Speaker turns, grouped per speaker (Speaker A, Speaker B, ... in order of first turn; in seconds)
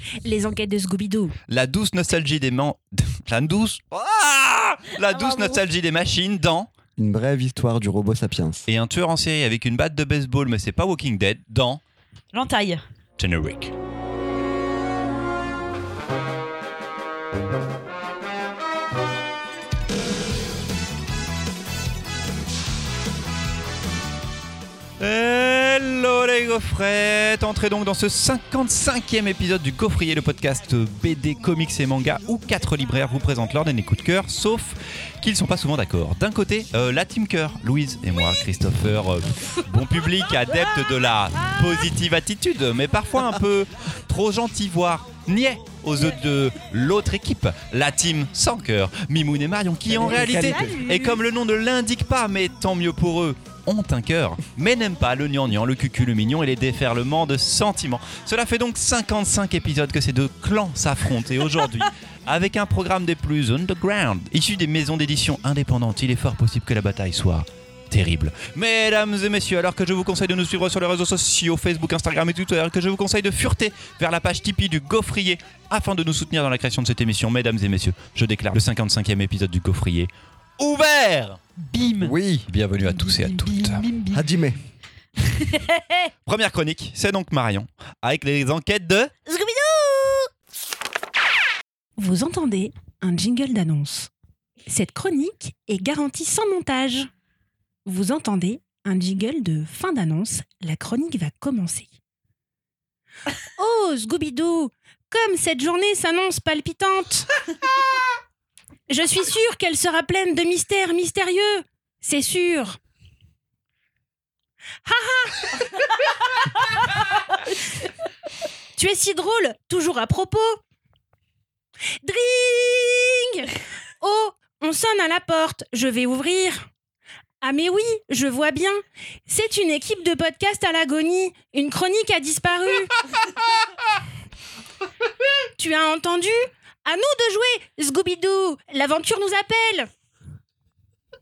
Speaker A: 0.2-1.4, 92.0-94.1, 94.7-97.1, 97.9-101.9, 103.6-107.3, 108.9-112.8, 114.9-115.9, 118.8-120.6, 122.0-126.7, 127.4-133.0, 135.6-139.9
Speaker B: 1.5-6.7, 8.7-11.8, 13.2-13.7, 25.0-81.4, 82.5-83.8, 86.3-89.1
Speaker C: 5.1-5.6, 12.3-12.8, 50.6-51.0, 81.6-82.2, 82.8-84.2, 85.3-86.1, 89.3-90.3
Speaker D: 7.0-8.7, 49.9-50.8, 82.0-82.5, 84.1-84.6